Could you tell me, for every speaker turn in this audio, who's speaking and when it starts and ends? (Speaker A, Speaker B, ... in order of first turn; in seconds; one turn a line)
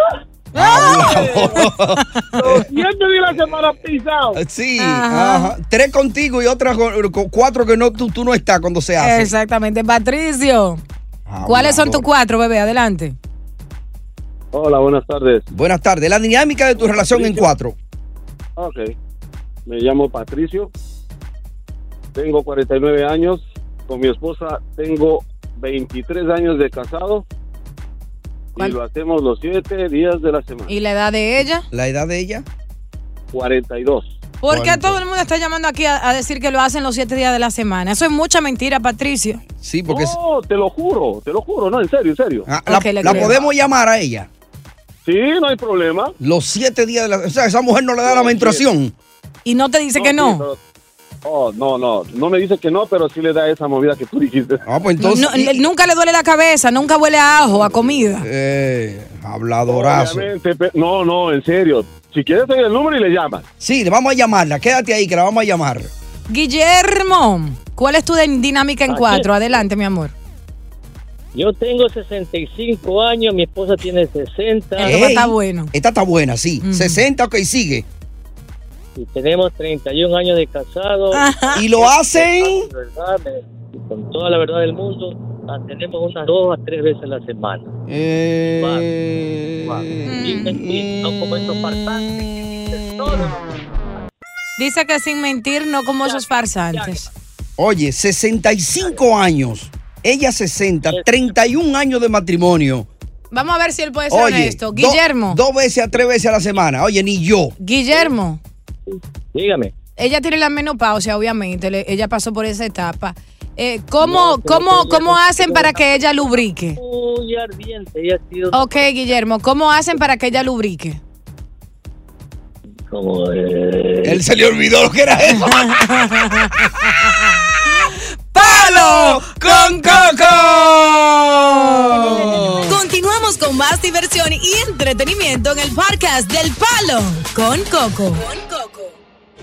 Speaker A: 0.5-2.6
Speaker B: 0.5-2.3
Speaker C: 0.9-1.5
Speaker C: 2.4-4.4
Speaker A: 4.3-9.3
Speaker B: 4.8-5.5
Speaker B: 9.0-10.8
Speaker A: 11.3-12.1
Speaker B: 11.4-13.2
Speaker D: 14.5-15.4
Speaker A: 15.5-17.7
Speaker D: 16.9-17.4
Speaker D: 18.6-18.9
Speaker D: 19.7-20.7
Speaker D: 22.1-27.2
Speaker D: 28.6-30.7
Speaker B: 30.7-31.6
Speaker A: 31.7-32.5
Speaker D: 33.3-34.1
Speaker B: 34.4-39.4
Speaker A: 34.5-35.0
Speaker A: 39.6-40.1
Speaker D: 39.9-42.4
Speaker A: 42.5-44.3
Speaker B: 42.7-43.4
Speaker D: 45.0-46.1
Speaker A: 46.2-48.9
Speaker D: 48.0-48.6
Speaker B: 49.4-50.5
Speaker D: 50.0-50.5
Speaker D: 51.2-54.6
Speaker A: 54.6-55.6
Speaker B: 55.0-58.3
Speaker A: 58.2-60.3
Speaker D: 59.7-63.4
Speaker A: 63.6-65.9
Speaker B: 66.3-70.1
Speaker E: 68.9-69.3
Speaker E: 71.3-75.2
Speaker B: 74.8-75.7
Speaker A: 74.8-77.8
Speaker B: 76.6-77.0
Speaker E: 79.0-87.7
Speaker B: 81.1-81.6
Speaker A: 81.5-82.7
Speaker A: 87.9-93.2
Speaker E: 88.6-88.9
Speaker E: 89.6-93.5
Speaker B: 90.0-90.5
Speaker B: 94.6-97.0
Speaker A: 97.6-102.9
Speaker B: 103.3-105.4
Speaker A: 104.1-107.5
Speaker B: 107.6-108.4
Speaker E: 108.9-109.7
Speaker B: 110.0-116.8
Speaker E: 114.0-118.9
Speaker B: 118.5-121.0
Speaker E: 122.9-124.2
Speaker A: 124.0-125.8
Speaker B: 125.7-126.7
Speaker B: 128.3-130.4
Speaker A: 128.3-132.8
Speaker B: 131.7-138.9